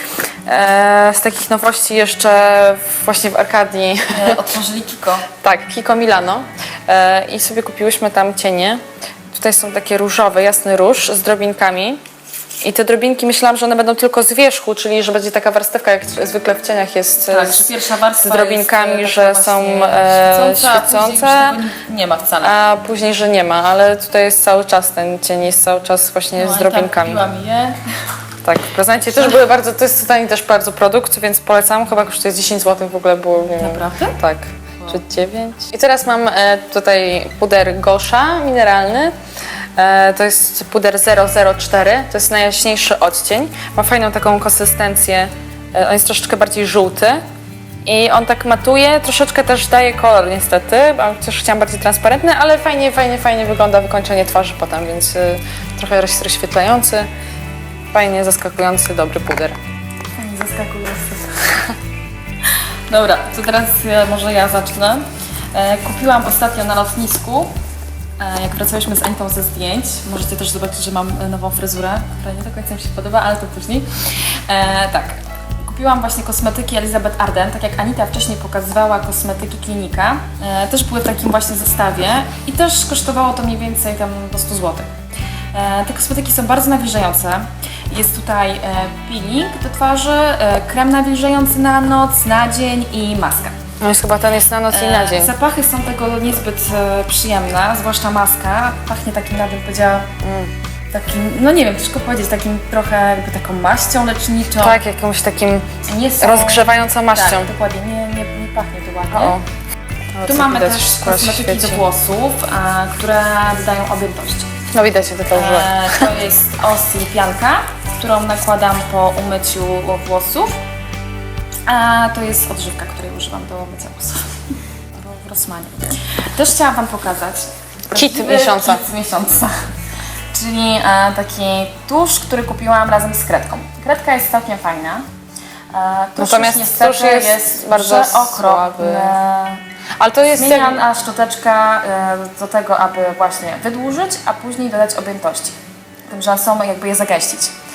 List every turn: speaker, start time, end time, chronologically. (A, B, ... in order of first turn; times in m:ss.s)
0:00.5-0:04.4 A
0:04.1-0:05.3 B
0:05.4-0:12.0 A
0:12.6-0:21.6 A
0:17.2-0:22.6 B
0:22.4-0:27.3 A
0:26.4-0:27.8 B
0:28.4-0:39.1 A
0:33.6-0:34.2 B
0:39.8-0:47.2 A
0:47.8-0:57.1 A
0:57.9-0:59.6 A
1:00.2-1:01.7 B
1:02.9-1:07.5 B
1:08.2-1:24.9 B
1:25.5-1:33.5 B
1:33.8-1:35.3 A
1:34.7-1:40.1 B
1:40.2-1:40.5 A
1:40.9-1:44.8 B
1:44.6-1:45.7 A
1:45.8-1:49.4 B
1:46.2-1:47.5 A
1:49.1-1:49.4 A
1:50.2-1:51.8 A
1:50.2-1:54.5 B
1:54.7-1:56.1 A
1:55.3-2:00.6 B
2:01.7-2:04.3 B
2:05.0-2:09.5 B
2:07.9-2:08.8 A
2:10.3-2:15.0 B
2:15.7-2:19.6 B
2:16.2-2:19.2 A
2:20.0-2:20.8 A
2:20.3-2:25.6 B
2:26.1-2:27.5 B